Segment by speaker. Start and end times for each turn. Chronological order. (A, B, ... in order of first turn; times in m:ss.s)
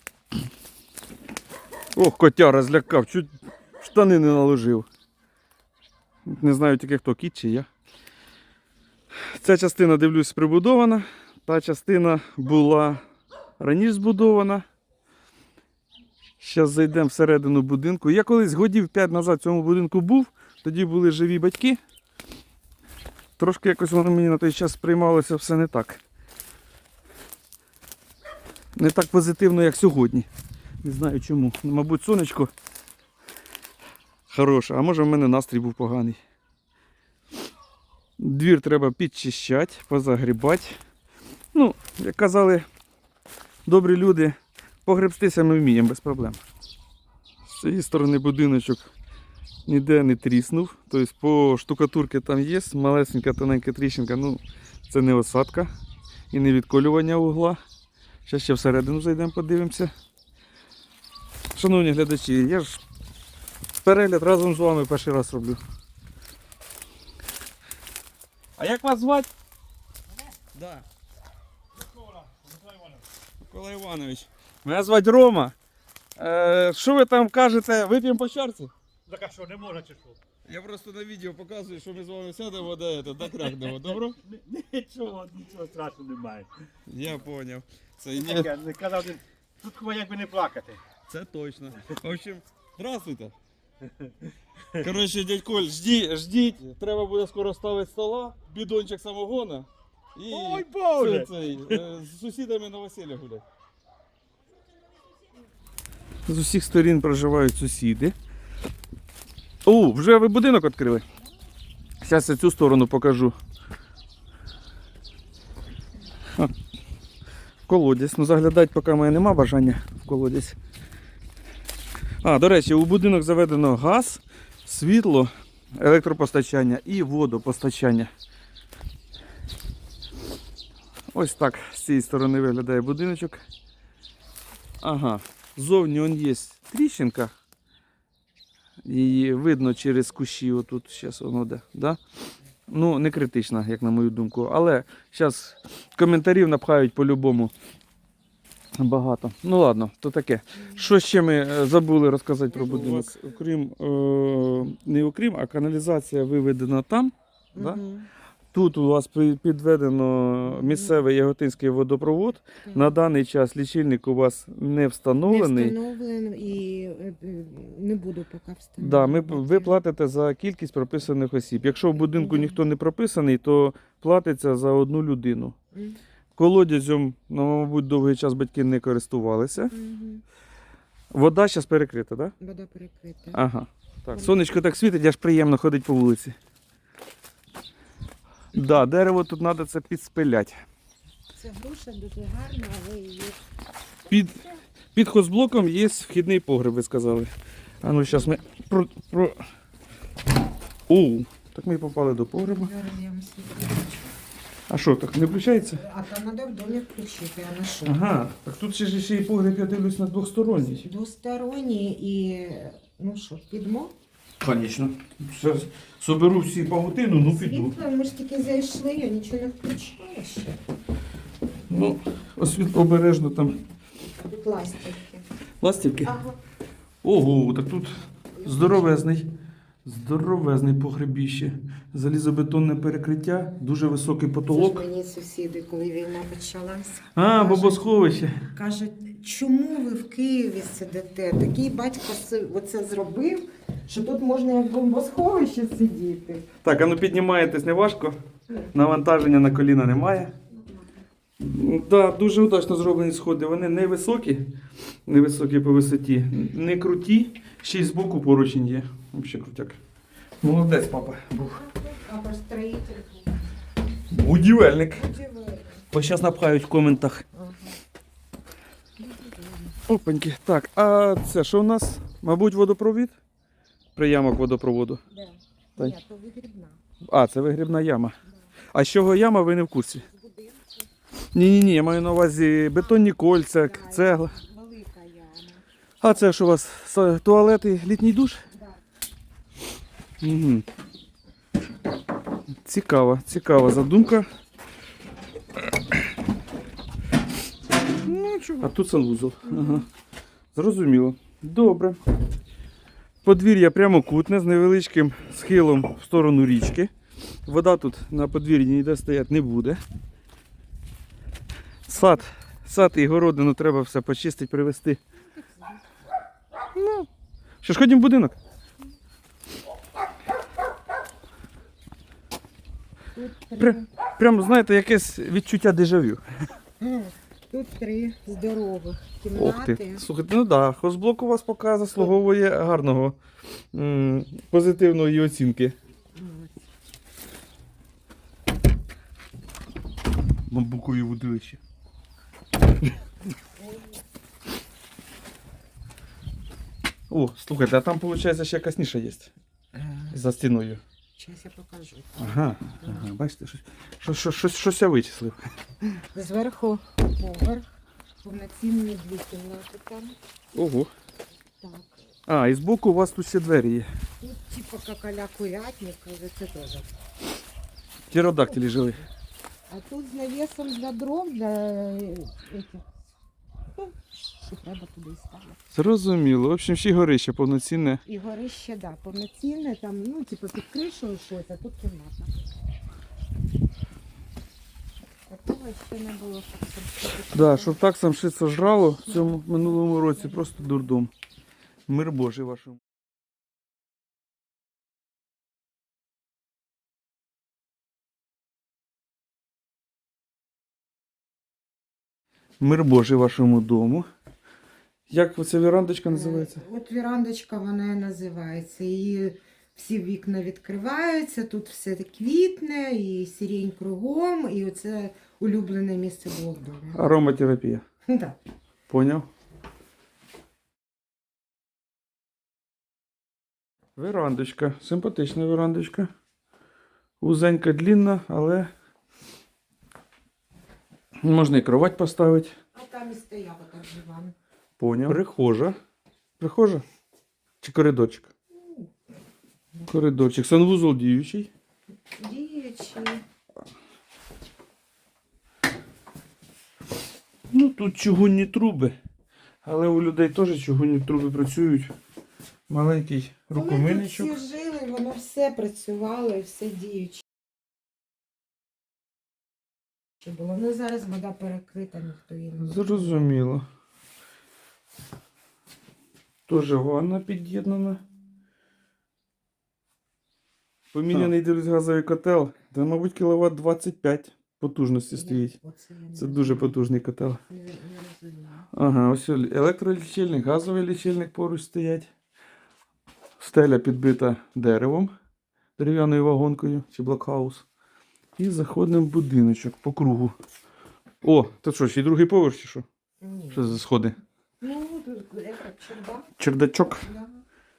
0:01.9-0:04.9 A
0:06.2-0:07.7 A
0:09.2-0:13.0 A
0:13.6-0:14.6 A
0:16.4-0:21.8 A
0:23.4-0:26.0 A
0:28.8-0:30.3 A
0:30.8-0:32.5 A
0:34.3-0:36.2 A
0:38.2-0:40.8 A
0:41.5-0:42.6 A
0:43.6-0:46.4 A
0:47.4-0:48.9 A
0:49.7-0:55.7 A
0:56.3-0:57.6 A
0:58.2-0:59.9 A
1:01.5-1:02.8 A
1:03.8-1:05.6 A
1:08.6-1:09.3 A
1:10.5-1:10.8 A
1:11.9-1:13.0 B
1:13.4-1:15.5 A
1:16.2-1:18.7 A
1:19.1-1:20.2 B
1:20.4-1:24.2 A
1:23.4-1:26.5 B
1:26.9-1:28.5 A
1:28.1-1:30.8 B
1:31.1-1:33.3 A
1:34.7-1:43.4 A
1:40.3-1:41.8 B
1:46.3-1:48.1 A
1:49.6-1:51.0 A
1:52.0-1:53.3 A
1:57.7-2:00.6 A
2:02.2-2:08.1 A
2:11.1-2:13.4 A
2:14.8-2:17.3 A
2:18.8-2:22.0 A
2:22.7-2:27.5 A
2:28.8-2:37.8 A
2:32.5-2:33.2 C
2:37.5-2:38.1 C
2:38.5-2:45.8 A
2:40.4-2:41.0 C
2:42.6-2:43.0 C
2:45.2-2:49.7 C
2:48.8-2:55.5 A
2:52.0-2:52.6 C
2:55.7-2:56.0 C
2:56.4-2:59.7 A
2:59.7-3:00.2 C
3:01.1-3:02.3 A
3:02.4-3:03.4 C
3:03.3-3:06.3 A
3:04.1-3:04.5 C
3:08.5-3:10.6 A
3:11.3-3:13.4 C
3:14.0-3:14.6 C
3:14.1-3:14.4 A
3:14.9-3:19.4 A
3:20.9-3:22.7 A
3:22.4-3:24.1 C
3:24.7-3:25.8 A
3:25.8-3:28.0 C
3:27.8-3:30.9 A
3:30.6-3:33.9 C
3:34.4-3:37.7 A
3:37.2-3:40.6 C
3:41.7-3:43.6 A
3:44.2-3:45.2 C
3:45.6-3:46.2 A
3:46.0-3:46.4 C
3:47.0-3:49.2 A
3:48.3-3:48.9 C
3:49.8-3:54.8 A
3:54.5-4:06.5 C
3:57.1-3:58.4 A
4:06.6-4:08.2 A
4:08.7-4:10.3 A
4:10.5-4:10.8 C
4:11.4-4:14.5 A
4:15.1-4:19.8 A
4:20.4-4:21.6 A
4:21.3-4:23.5 C
4:24.1-4:25.0 A
4:24.9-4:25.9 C
4:25.9-4:27.2 A
4:27.3-4:27.8 C
4:29.0-4:29.8 C
4:29.9-4:33.1 A
4:34.0-4:35.0 A
4:35.1-4:36.8 C
4:37.0-4:38.1 A
4:38.7-4:40.0 A
4:40.0-4:40.9 C
4:41.3-4:44.3 A
4:42.8-4:45.6 C
4:46.0-4:48.4 A
4:48.5-4:48.8 C
4:50.2-4:50.6 A
4:52.6-4:54.3 A
4:58.0-4:59.9 A
4:59.4-4:59.8 C
5:00.5-5:02.0 A
5:03.2-5:06.9 A
5:07.4-5:09.8 A
5:11.9-5:15.0 A
5:15.2-5:15.8 C
5:16.7-5:17.1 A
5:17.6-5:18.4 A
5:23.1-5:23.9 C
5:23.6-5:26.2 A
5:26.8-5:30.0 C
5:29.3-5:33.2 A
5:33.7-5:35.7 A
5:36.1-5:36.6 C
5:40.5-5:41.6 A
5:43.6-5:44.0 C
5:47.1-5:49.3 A
5:49.7-5:50.1 C
5:50.1-5:50.8 A
5:51.2-5:53.1 C
5:52.2-5:55.5 A
5:56.1-5:57.6 C
5:58.2-6:00.2 C
6:00.5-6:00.9 A
6:01.6-6:02.0 C
6:02.3-6:03.9 A
6:04.2-6:06.9 C
6:08.1-6:09.0 A
6:09.7-6:12.9 C
6:13.8-6:15.6 C
6:15.7-6:18.0 A
6:18.0-6:22.3 C
6:25.3-6:27.7 C
6:27.3-6:31.1 A
6:29.0-6:30.7 C
6:31.9-6:32.8 A
6:42.6-6:44.1 A
6:45.1-6:46.6 A
6:46.1-6:57.2 C
6:56.9-6:57.8 A
6:58.1-6:58.4 C
6:58.9-6:59.3 A
7:04.0-7:06.1 A
7:07.2-7:08.7 A
7:11.2-7:12.5 A
7:12.7-7:14.3 C
7:14.8-7:15.8 A
7:16.4-7:16.8 A
7:17.6-7:18.3 A
7:18.5-7:18.9 C
7:19.9-7:21.5 A
7:22.1-7:23.2 C
7:27.5-7:28.9 A
7:29.6-7:31.9 A
7:32.7-7:34.4 A
7:33.5-7:37.2 C
7:40.2-7:43.3 C
7:42.6-7:43.6 A
7:46.5-7:48.0 A
7:50.9-7:55.5 A
7:55.1-7:56.8 C
7:56.1-7:57.4 A
7:57.5-7:58.7 C
7:58.7-8:02.1 A
8:03.4-8:05.1 A
8:05.8-8:07.6 A
8:08.4-8:10.3 A
8:11.2-8:12.8 A
8:13.2-8:13.8 C
8:13.5-8:14.2 A
8:14.6-8:17.4 C
8:16.4-8:17.0 A